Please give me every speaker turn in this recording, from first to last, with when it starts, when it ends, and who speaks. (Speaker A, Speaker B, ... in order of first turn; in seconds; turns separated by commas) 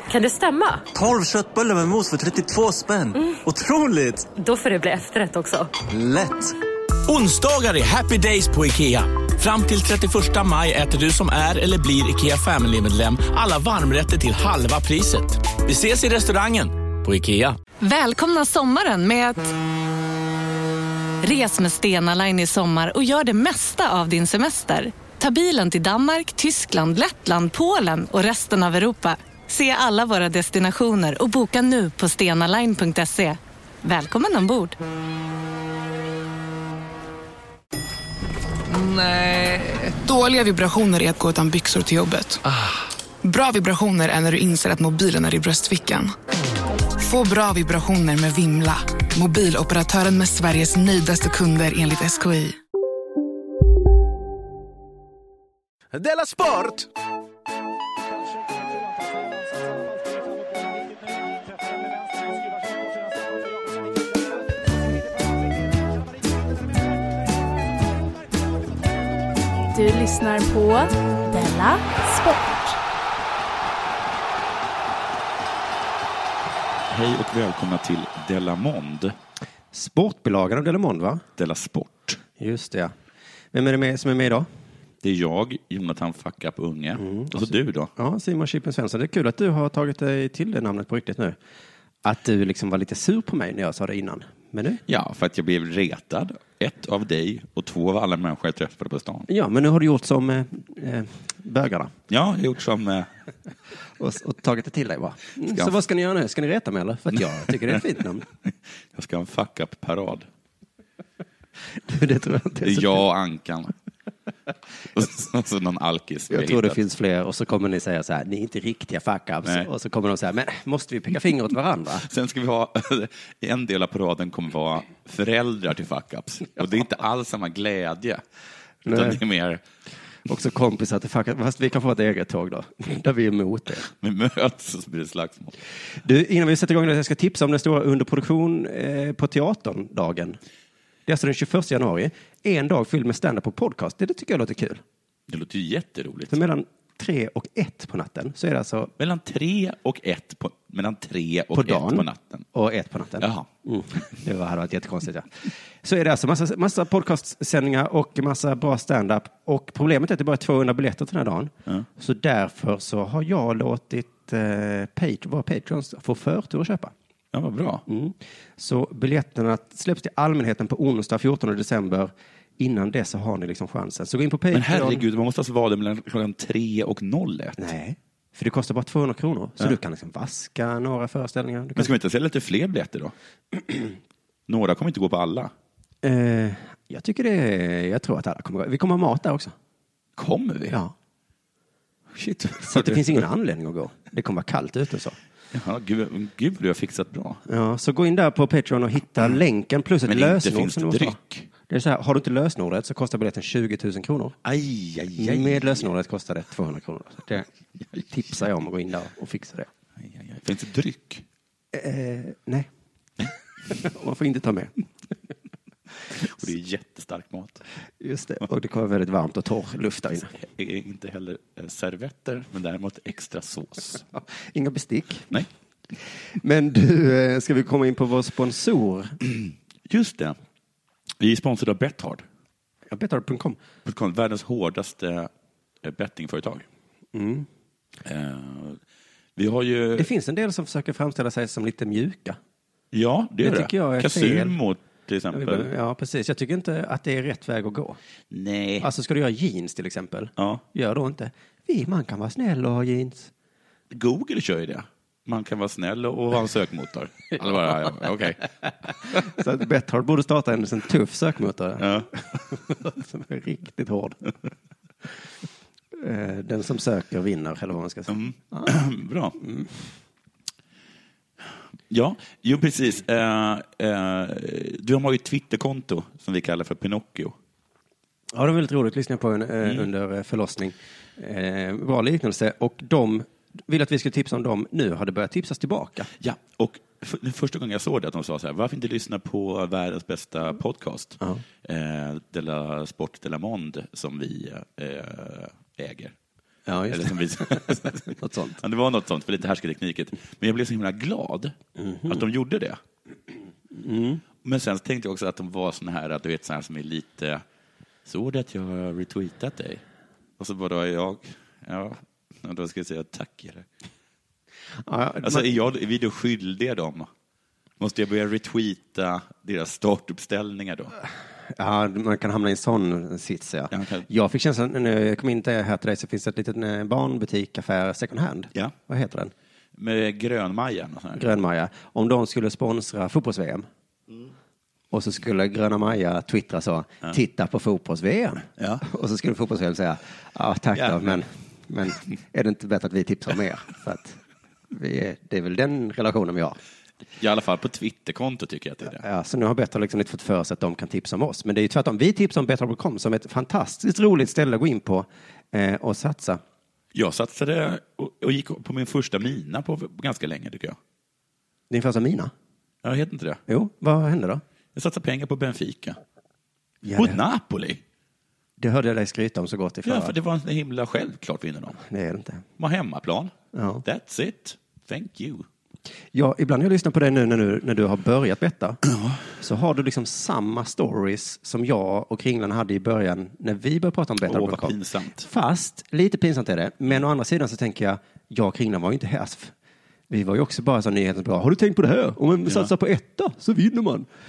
Speaker A: 0.1-0.8, Speaker B: 0.9-4.3, Speaker A: 4.3-5.7, Speaker B: 5.9-6.5, Speaker C: 7.1-17.6, Speaker D: 17.8-19.5, Speaker D: 21.2-34.8, Speaker C: 38.9-39.6, Speaker E: 39.9-42.4, Speaker E: 43.2-46.1, Speaker E: 47.0-52.6, Speaker C: 56.0-56.9, Speaker F: 69.7-72.8, Speaker G: 76.9-79.2, Speaker H: 79.7-81.2, Speaker G: 81.4-82.2, Speaker H: 82.4-82.9, Speaker H: 83.5-84.5, Speaker G: 85.0-87.9, Speaker H: 87.0-91.4, Speaker H: 92.0-94.8, Speaker G: 94.9-99.3, Speaker H: 99.3-102.0, Speaker G: 102.1-103.1, Speaker H: 104.0-108.3, Speaker G: 105.4-105.8, Speaker G: 107.1-107.8, Speaker G: 108.5-110.3, Speaker H: 111.8-113.0, Speaker G: 112.6-113.7, Speaker G: 114.9-116.8, Speaker H: 116.3-122.1, Speaker G: 119.4-119.7, Speaker G: 122.0-128.2, Speaker H: 128.8-129.2, Speaker G: 128.9-129.6, Speaker H: 130.3-133.9, Speaker G: 133.9-135.6, Speaker H: 136.0-140.4, Speaker H: 141.1-144.8, Speaker G: 145.3-146.4, Speaker H: 146.3-148.9, Speaker G: 149.0-152.5, Speaker H: 151.6-166.9, Speaker G: 153.2-153.5, Speaker G: 167.3-167.8, Speaker H: 167.9-175.1, Speaker G: 174.5-177.7, Speaker H: 177.6-181.9, Speaker G: 181.8-183.1, Speaker H: 183.5-183.9, Speaker G: 184.5-185.5, Speaker H: 186.0-189.5, Speaker G: 190.2-190.8, Speaker H: 190.7-190.9, Speaker H: 192.2-195.2, Speaker G: 192.5-193.2, Speaker G: 195.5-197.4, Speaker H: 197.5-201.2, Speaker G: 200.1-201.5, Speaker H: 201.7-204.4, Speaker G: 204.4-205.9, Speaker H: 205.2-209.7, Speaker G: 210.0-211.2, Speaker H: 211.7-212.7, Speaker H: 213.7-214.8, Speaker G: 216.2-217.6, Speaker H: 218.0-220.3, Speaker G: 220.3-224.1, Speaker H: 224.1-229.2, Speaker G: 229.2-230.4, Speaker G: 231.2-232.3, Speaker H: 232.9-233.6, Speaker G: 233.8-235.3, Speaker G: 235.8-236.7, Speaker H: 237.1-237.5, Speaker G: 238.0-238.8, Speaker G: 239.4-240.1, Speaker H: 240.0-242.4, Speaker G: 242.9-245.7, Speaker H: 243.4-244.6, Speaker H: 245.3-248.0, Speaker G: 248.3-248.9, Speaker H: 248.8-253.3, Speaker G: 250.4-250.6, Speaker G: 253.9-258.4, Speaker H: 259.0-264.4, Speaker G: 261.8-262.1, Speaker H: 265.9-268.7, Speaker G: 268.1-269.4, Speaker H: 269.4-269.9, Speaker G: 271.9-277.4, Speaker H: 278.3-286.1, Speaker G: 286.2-296.1, Speaker H: 296.7-298.6, Speaker G: 296.9-301.6, Speaker H: 301.8-302.2, Speaker G: 302.1-302.8, Speaker H: 303.7-304.2, Speaker G: 304.4-307.4, Speaker G: 308.1-309.8, Speaker G: 310.4-313.7, Speaker H: 314.9-315.5, Speaker G: 315.2-317.1, Speaker G: 317.8-320.9, Speaker H: 321.5-329.3, Speaker G: 323.7-324.1, Speaker G: 329.8-331.2, Speaker H: 331.1-333.7, Speaker H: 334.9-344.2, Speaker G: 338.6-338.8, Speaker G: 340.8-341.2, Speaker H: 344.7-346.6, Speaker G: 347.2-349.0, Speaker H: 348.9-356.4, Speaker G: 356.9-360.8, Speaker H: 361.7-362.3, Speaker G: 362.8-363.4, Speaker H: 363.5-364.4, Speaker G: 364.8-366.0, Speaker H: 366.8-367.2, Speaker G: 366.9-367.8, Speaker H: 368.6-370.1, Speaker G: 369.8-371.8, Speaker H: 371.8-372.4, Speaker G: 372.6-373.3, Speaker H: 373.5-373.8, Speaker G: 373.9-375.5, Speaker H: 376.1-378.8, Speaker G: 378.9-379.2, Speaker H: 379.4-389.5, Speaker G: 384.2-385.2, Speaker H: 390.1-394.1, Speaker G: 392.5-392.7